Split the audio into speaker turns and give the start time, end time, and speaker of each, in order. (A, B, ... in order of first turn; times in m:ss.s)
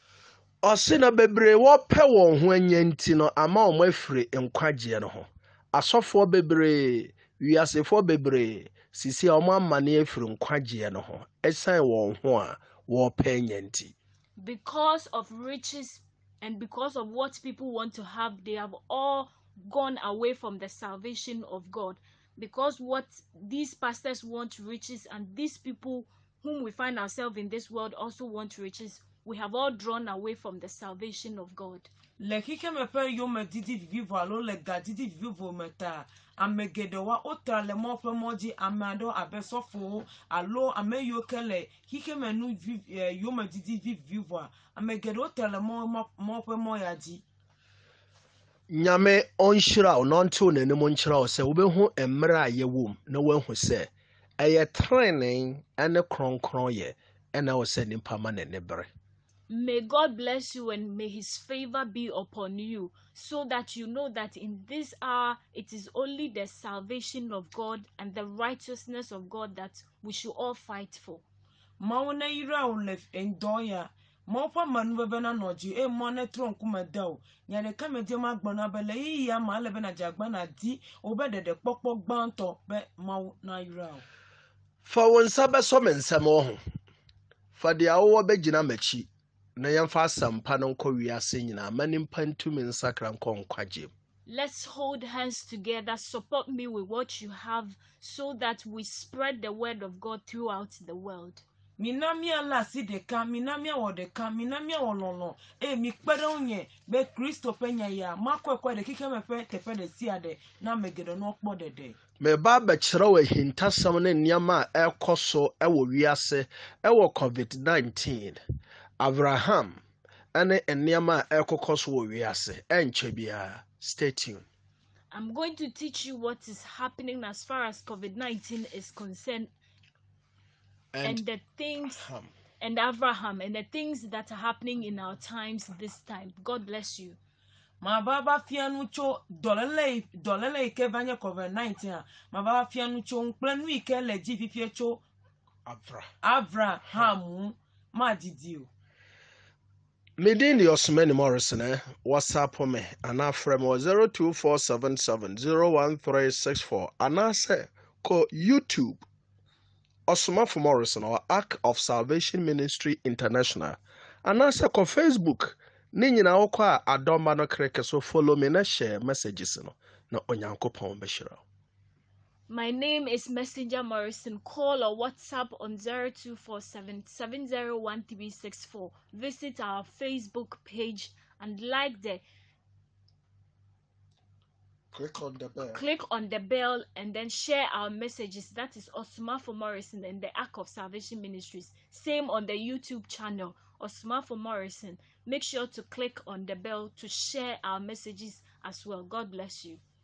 0:00.6-0:13.9 A
0:14.4-0:31.9 B
0:32.2-0:47.2 C
0:48.7-0:58.9 A
0:59.5-1:11.2 B
1:11.8-1:24.0 C
1:24.8-1:26.6 A
1:27.5-1:33.9 A
1:34.2-1:41.4 B
1:41.8-1:52.0 C
1:52.2-1:58.4 A
1:59.0-1:59.8 A
2:00.3-2:04.4 A
2:05.1-2:09.5 B
2:10.9-2:11.2 A
2:11.0-2:12.0 B
2:11.8-2:12.3 A
2:12.6-2:17.2 B
2:17.8-2:25.0 C
2:25.6-2:26.1 A
2:26.2-2:28.7 C
2:30.2-2:39.0 A
2:40.1-2:51.4 A
2:52.5-3:02.2 B
3:04.9-3:05.8 A
3:05.7-3:19.8 B